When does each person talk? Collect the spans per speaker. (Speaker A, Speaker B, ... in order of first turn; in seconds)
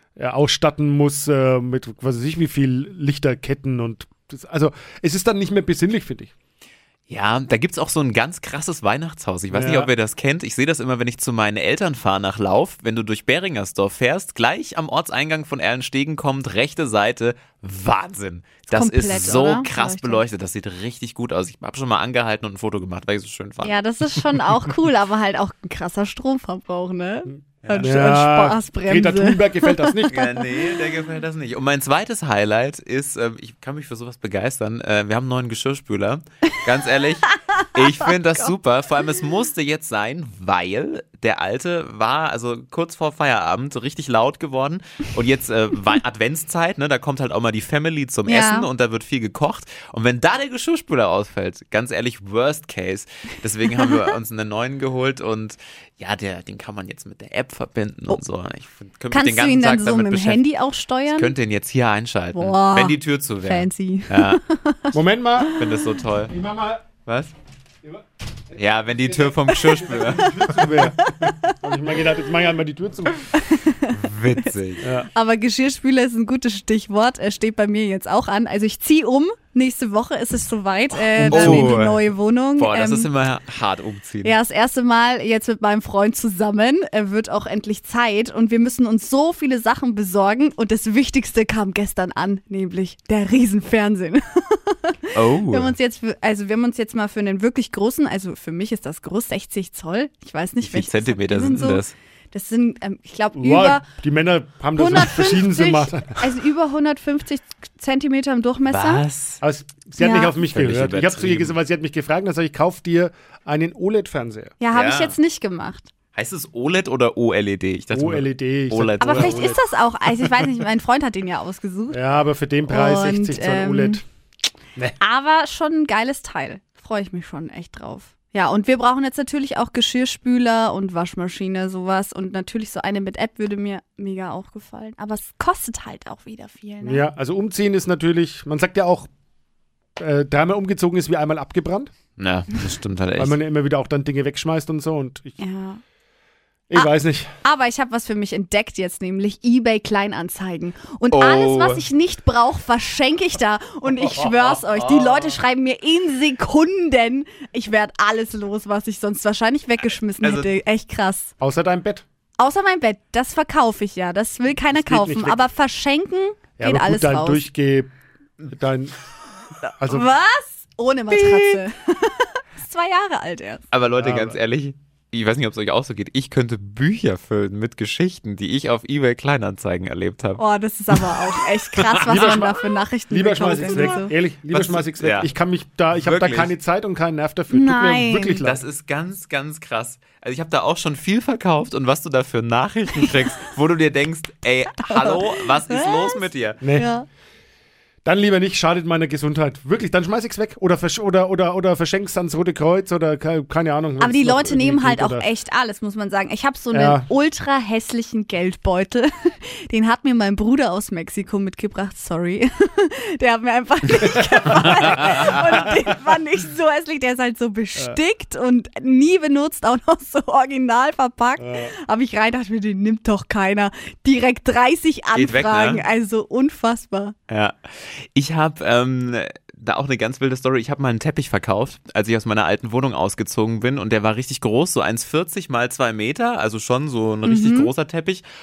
Speaker A: 0.2-6.3, 9.5-9.9, 27.7-30.2, 64.9-65.6, 66.3-66.8, 68.8-73.3, 74.8-75.1, 81.1-81.8, 103.4-106.3, 109.4-114.5, 117.9-119.6, 121.9-124.0, 136.8-139.1, 140.0-141.9, 143.2-145.4, 146.7-147.3, 154.1-154.9, 161.4-162.1, 164.7-165.5, 166.6-167.9, 168.5-168.9, 169.8-170.1, 174.0-174.4, 182.0-188.6, 196.6-196.9, 198.1-205.3, 206.7-207.1, 214.0-215.7, 221.4-221.7
Speaker B: 7.1-24.2, 27.6-27.9, 30.1-60.4, 61.1-64.4, 65.6-66.3, 67.1-67.3, 68.5-70.6, 73.9-74.9, 81.3-82.0, 82.6-84.3, 95.1-95.8, 100.6-101.9, 108.7-109.4, 110.4-111.6, 114.7-115.2, 116.2-119.5, 142.2-143.4, 151.1-151.8, 154.8-155.3, 160.2-160.5, 171.1-171.6, 173.7-182.5, 183.6-184.0, 184.5-185.3, 185.9-186.5, 188.4-196.6, 215.2-215.6, 225.2-225.8, 227.3-238.2
Speaker C: 18.7-20.2, 23.6-30.2, 48.3-48.7, 59.1-61.3, 62.3-65.0, 71.0-71.6, 73.4-74.0, 75.1-83.1, 84.2-103.8, 104.8-109.0, 110.0-110.4, 114.6-115.9, 119.0-122.0, 122.7-124.0, 125.0-137.1, 145.4-145.8, 146.7-161.3, 162.4-167.4, 169.8-173.7, 180.4-184.1, 187.5-188.5, 194.9-196.2, 196.8-197.1, 204.0-227.2, 237.2-237.7